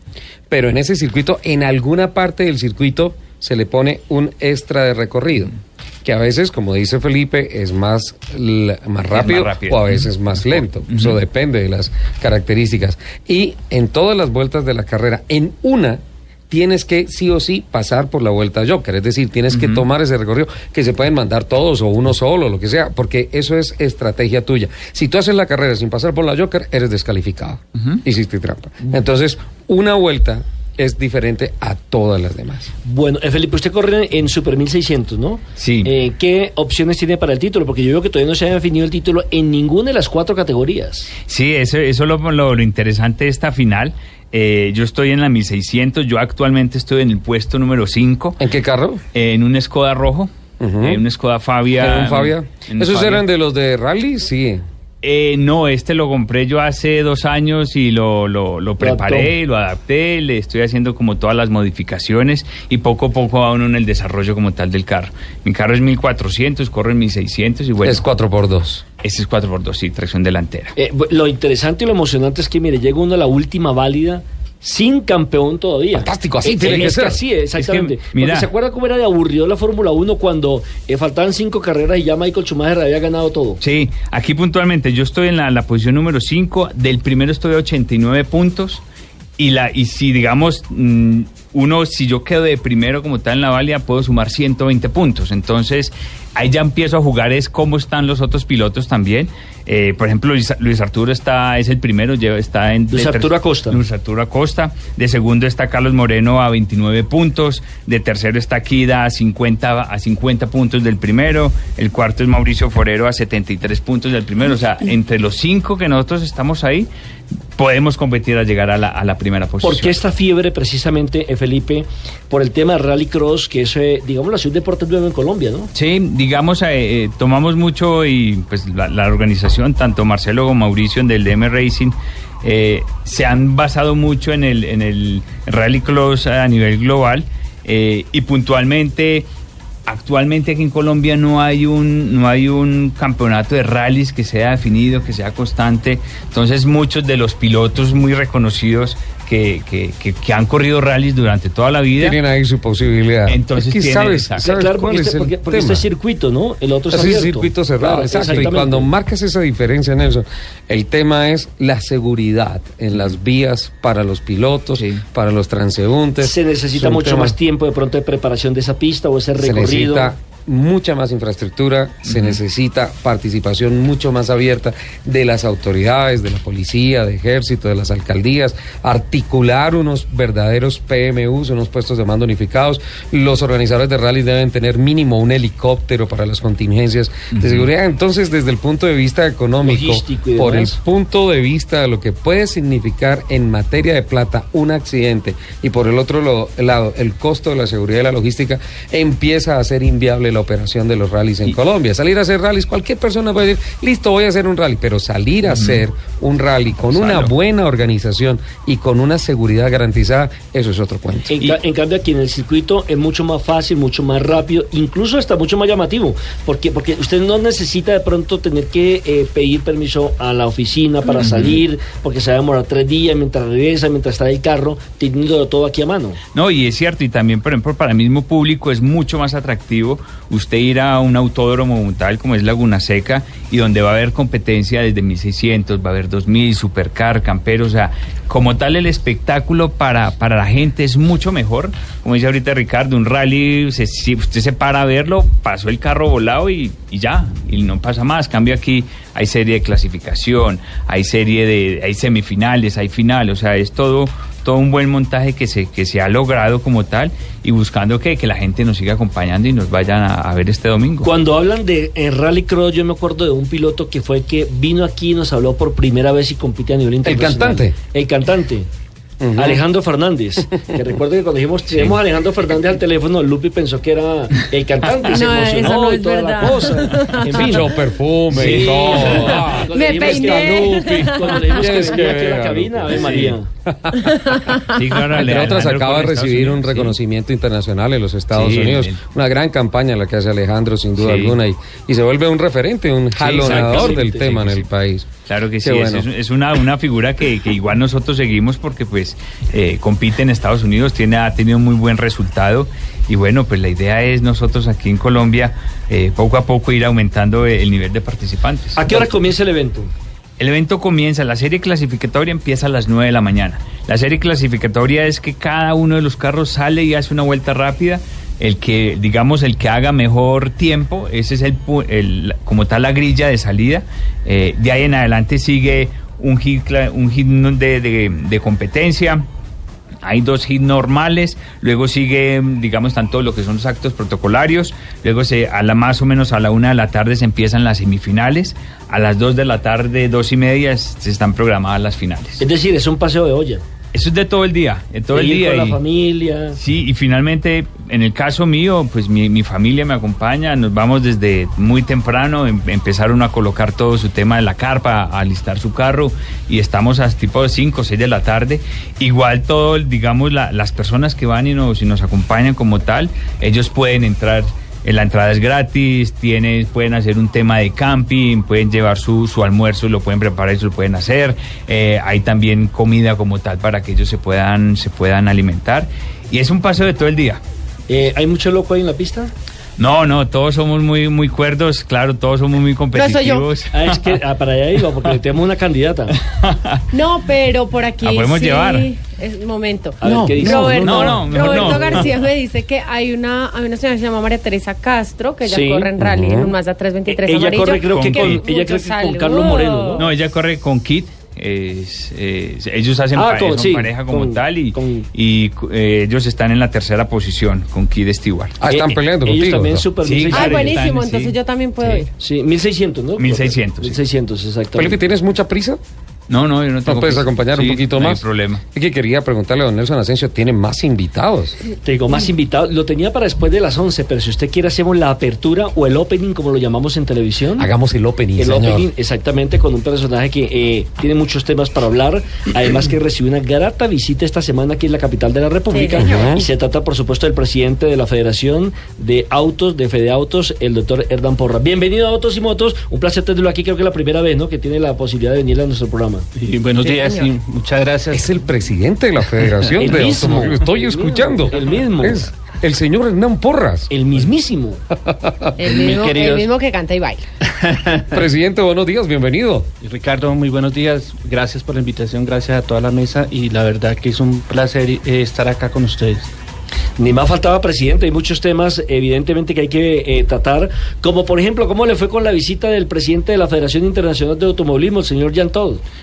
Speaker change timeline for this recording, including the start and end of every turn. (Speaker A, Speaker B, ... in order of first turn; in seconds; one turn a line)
Speaker A: 0.5-32.7
Speaker B: 9.1-11.2
Speaker B: 19.5-19.8
Speaker C: 32.8-41.1
Speaker B: 35.6-35.9
Speaker B: 41.2-48.4
Speaker A: 48.4-49.0
Speaker B: 49.1-50.3
Speaker A: 50.6-51.0
Speaker B: 50.8-53.2
Speaker A: 51.7-54.6
Speaker B: 55.0-68.0
Speaker C: 58.8-59.3
Speaker A: 67.8-68.8
Speaker B: 69.0-70.7
Speaker C: 70.8-83.6
Speaker A: 75.9-77.2
Speaker B: 76.6-76.9
Speaker B: 77.6-78.5
Speaker B: 83.6-88.8
Speaker B: 89.4-116.9
Speaker C: 102.9-103.8
Speaker B: 117.5-119.9
Speaker C: 119.6-125.7
Speaker B: 125.7-139.3
Speaker B: 139.9-152.2
Speaker A: 152.0-155.9
Speaker B: 153.2-154.5
Speaker C: 154.4-158.9
Speaker A: 156.9-167.3
Speaker B: 164.7-165.0
Speaker C: 166.2-170.1
Speaker A: 169.3-211.3
Speaker B: 172.1-172.4
Speaker B: 187.3-187.7
Speaker C: 189.6-190.7
Speaker B: 205.4-205.8
Speaker B: 206.9-207.3
Speaker C: 211.3-226.2
Speaker B: 221.2-221.6
Speaker B: 226.3-261.1
Speaker C: 261.0-268.7
Speaker A: 267.0-267.7
Speaker A: 269.2-269.6
Speaker C: 269.4-277.6
Speaker B: 271.7-271.9
Speaker D: 275.1-277.6
Speaker A: 277.2-284.2
Speaker B: 278.3-279.4
Speaker C: 278.3-283.5
Speaker D: 279.7-281.7
Speaker B: 283.0-283.3
Speaker D: 284.0-284.8
Speaker B: 284.7-286.9
Speaker A: 285.1-295.1
Speaker B: 288.3-289.0
Speaker B: 291.0-291.4
Speaker B: 293.1-294.6
Speaker C: 293.4-294.3
Speaker B: 295.2-309.1
Speaker A: 295.6-296.1
Speaker C: 308.8-309.9
Speaker B: 310.4-329.2
Speaker B: 330.0-342.4
Speaker C: 342.4-343.6
Speaker B: 343.9-345.8
Speaker C: 345.1-346.6
Speaker B: 346.5-377.4
Speaker C: 377.9-379.3
Speaker B: 379.8-383.9
Speaker D: 382.9-383.5
Speaker C: 383.7-386.1
Speaker B: 386.3-386.8
Speaker D: 386.9-400.1
Speaker B: 388.0-388.9
Speaker C: 390.0-392.1
Speaker A: 390.0-391.3
Speaker B: 390.8-392.2
Speaker C: 395.5-395.9
Speaker A: 396.0-396.5
Speaker C: 397.1-400.1
Speaker B: 397.9-398.4
Speaker B: 400.0-408.6
Speaker C: 403.1-405.1
Speaker A: 408.6-409.9
Speaker C: 408.7-410.7
Speaker B: 410.0-411.4
Speaker D: 410.3-412.1
Speaker C: 412.2-415.0
Speaker B: 413.2-414.0
Speaker A: 414.7-415.8
Speaker B: 416.3-418.6
Speaker A: 416.8-421.6
Speaker C: 421.8-427.7
Speaker A: 427.6-428.9
Speaker C: 428.4-446.3
Speaker D: 435.7-436.2
Speaker A: 436.0-436.4
Speaker E: 446.4-448.2
Speaker D: 446.8-447.3
Speaker A: 448.1-453.9
Speaker C: 449.8-452.3
Speaker C: 453.9-454.8
Speaker A: 455.0-455.7
Speaker D: 455.6-457.2
Speaker E: 455.7-456.5
Speaker E: 457.4-458.2
Speaker A: 458.1-459.7
Speaker E: 459.8-466.3
Speaker C: 467.0-475.8